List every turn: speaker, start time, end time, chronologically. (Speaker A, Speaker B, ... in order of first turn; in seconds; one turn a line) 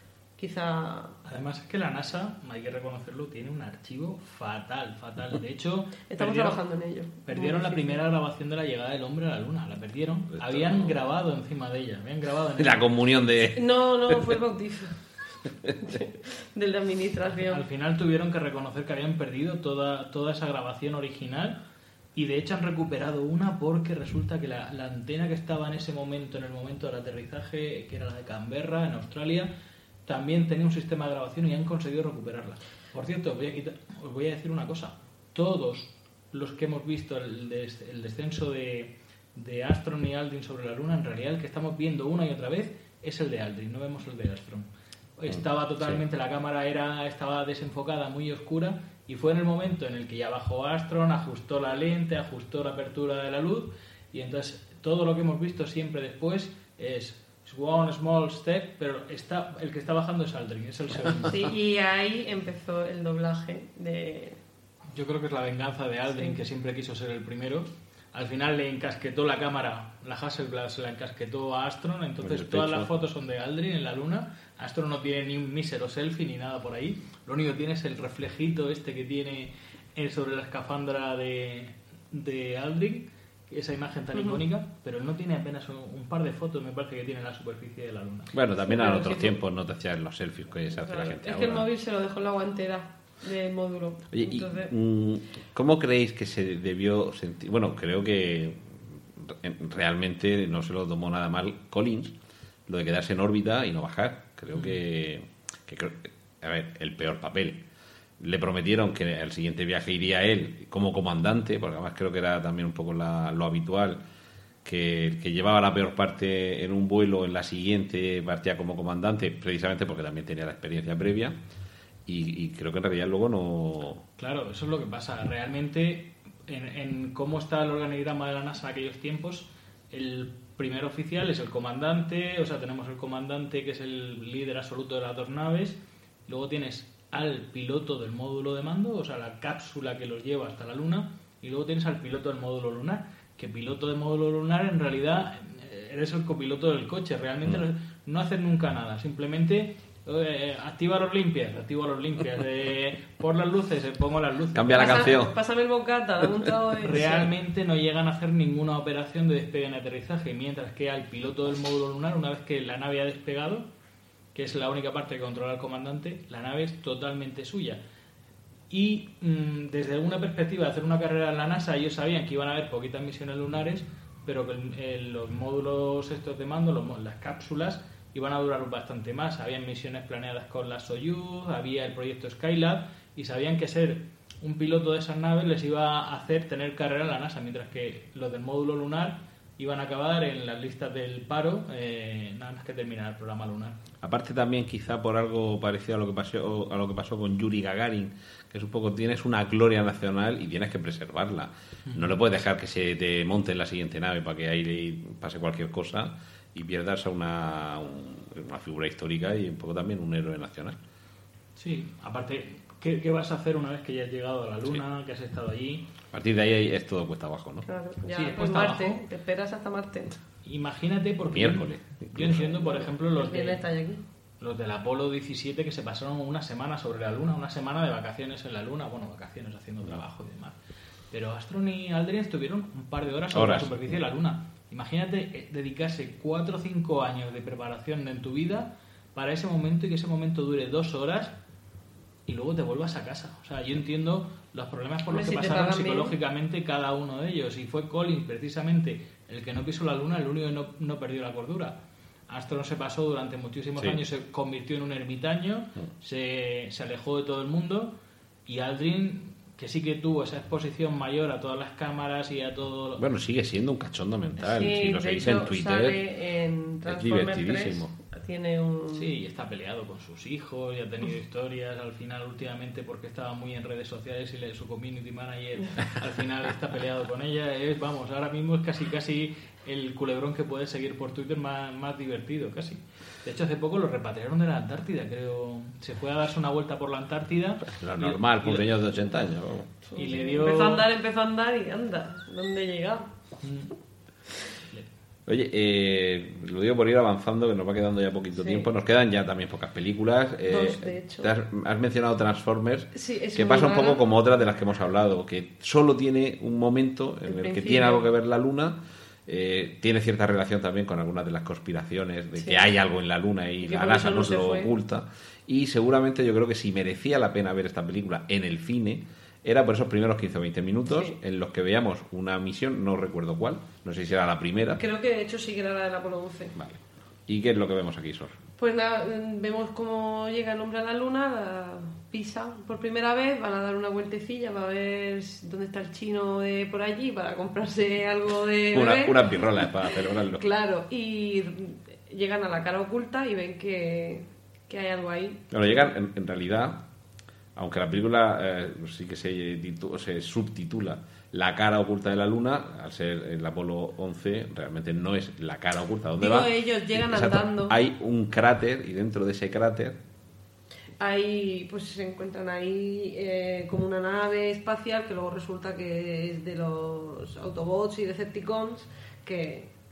Speaker A: 0.4-1.1
Speaker B: 1.3-6.6
Speaker A: 6.1-8.0
Speaker B: 7.3-12.9
Speaker C: 10.4-11.0
Speaker C: 12.6-14.3
Speaker A: 13.5-15.0
Speaker A: 15.8-17.6
Speaker B: 17.5-21.6
Speaker B: 22.2-29.5
Speaker B: 30.1-61.5
Speaker C: 45.3-46.0
Speaker A: 61.2-64.4
Speaker B: 64.9-88.3
Speaker C: 72.2-72.9
Speaker C: 88.3-91.7
Speaker A: 88.6-89.4
Speaker A: 90.7-94.7
Speaker C: 94.1-102.2
Speaker C: 102.7-107.7
Speaker C: 108.2-114.0
Speaker C: 114.6-121.4
Speaker C: 122.1-124.0
Speaker B: 124.2-155.2
Speaker C: 154.5-155.3
Speaker A: 154.7-157.3
Speaker B: 156.8-163.7
Speaker B: 164.3-167.8
Speaker B: 168.7-193.8
Speaker C: 194.0-210.8
Speaker B: 211.6-215.9
Speaker C: 216.1-217.7
Speaker A: 217.7-220.1
Speaker B: 218.1-219.0
Speaker B: 220.4-223.7
Speaker C: 221.2-222.7
Speaker A: 222.4-224.0
Speaker B: 224.4-230.6
Speaker B: 231.1-241.4
Speaker C: 233.3-233.9
Speaker B: 242.3-251.8
Speaker A: 245.1-246.2
Speaker B: 252.3-263.0
Speaker C: 263.0-266.0
Speaker A: 264.4-269.1
Speaker C: 266.9-267.9
Speaker B: 268.9-288.7
Speaker C: 287.7-289.7
Speaker A: 289.9-293.1
Speaker B: 290.0-290.9
Speaker B: 293.4-293.7
Speaker C: 295.3-324.8
Speaker A: 298.4-298.7
Speaker A: 300.5-301.3
Speaker A: 302.9-304.0
Speaker A: 307.3-308.1
Speaker A: 312.4-312.8
Speaker A: 313.6-314.7
Speaker A: 320.9-321.2
Speaker A: 324.8-326.6
Speaker C: 326.6-328.4
Speaker A: 328.6-345.5
Speaker C: 338.7-340.4
Speaker C: 345.5-346.9
Speaker C: 347.6-360.0
Speaker A: 356.2-357.8
Speaker A: 361.0-369.7